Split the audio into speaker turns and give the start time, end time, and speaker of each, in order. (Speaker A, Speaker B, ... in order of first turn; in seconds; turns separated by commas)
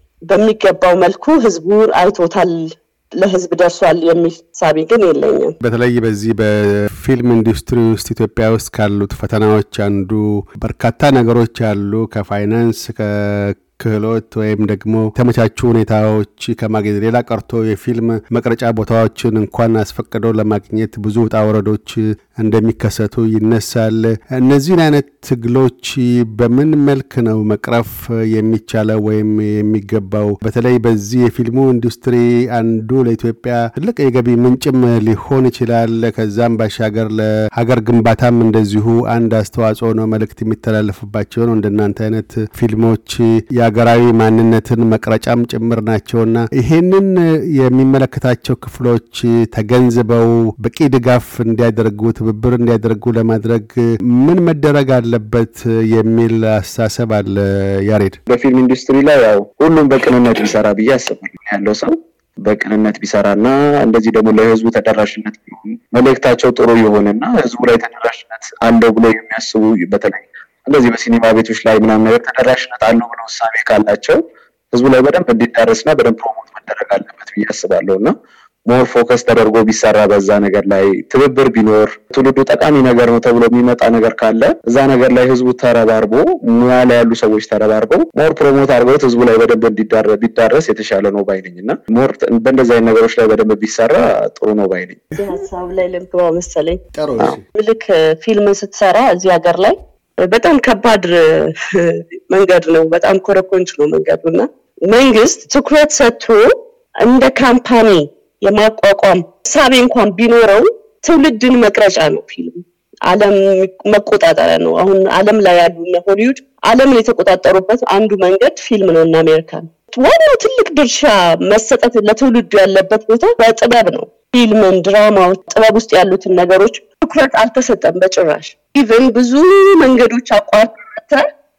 Speaker A: 0.3-5.5, Speaker B: 5.6-58.2, Speaker C: 58.3-74.2, Speaker C: 74.7-78.1, Speaker C: 78.7-95.0, Speaker A: 95.2-96.8, Speaker B: 97.0-97.4, Speaker A: 97.5-131.2